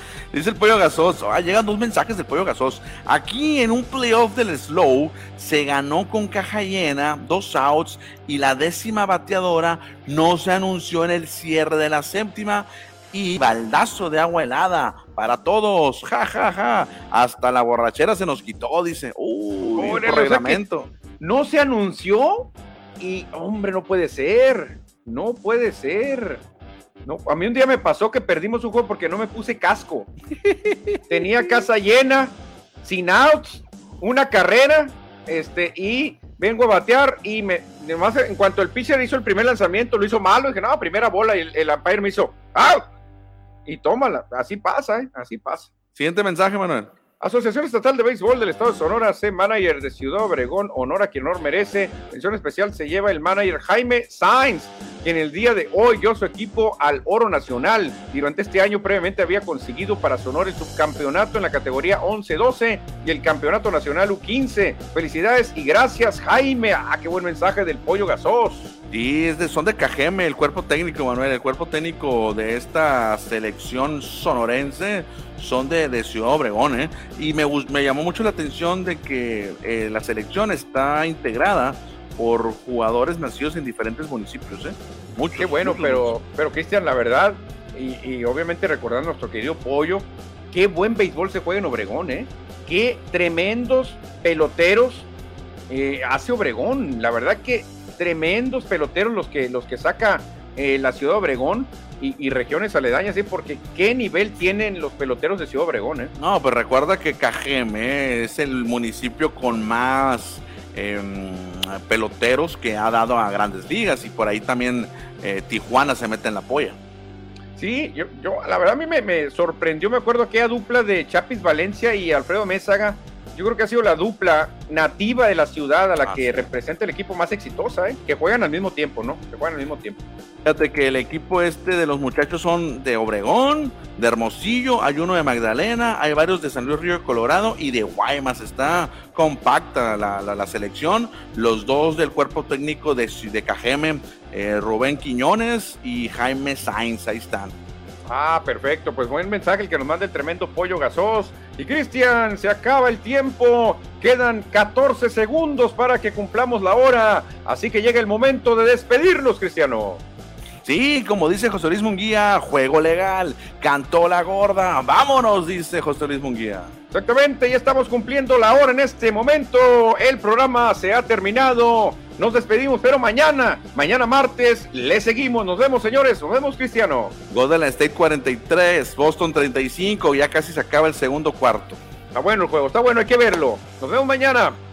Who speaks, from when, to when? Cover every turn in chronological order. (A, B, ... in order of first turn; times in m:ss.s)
0:00.3-0:20.9 A
0:19.8-0:20.6 B
0:21.2-0:26.4 B
0:27.0-0:30.1 B
0:30.4-0:31.0 A
0:31.1-0:42.9 B
0:43.7-0:45.7 B
0:46.0-0:46.9 A
0:47.2-1:08.8 B
1:08.9-1:26.1 A
1:25.4-1:35.1 B
1:35.7-1:46.1 B
1:46.2-1:56.8 A
1:57.6-2:10.0 B
2:06.0-2:06.5 A
2:10.4-2:27.5 A
2:28.1-2:40.0 B
2:40.6-2:46.7 A
2:46.9-2:57.2 B
2:57.3-3:01.8 A
3:02.1-3:04.6 B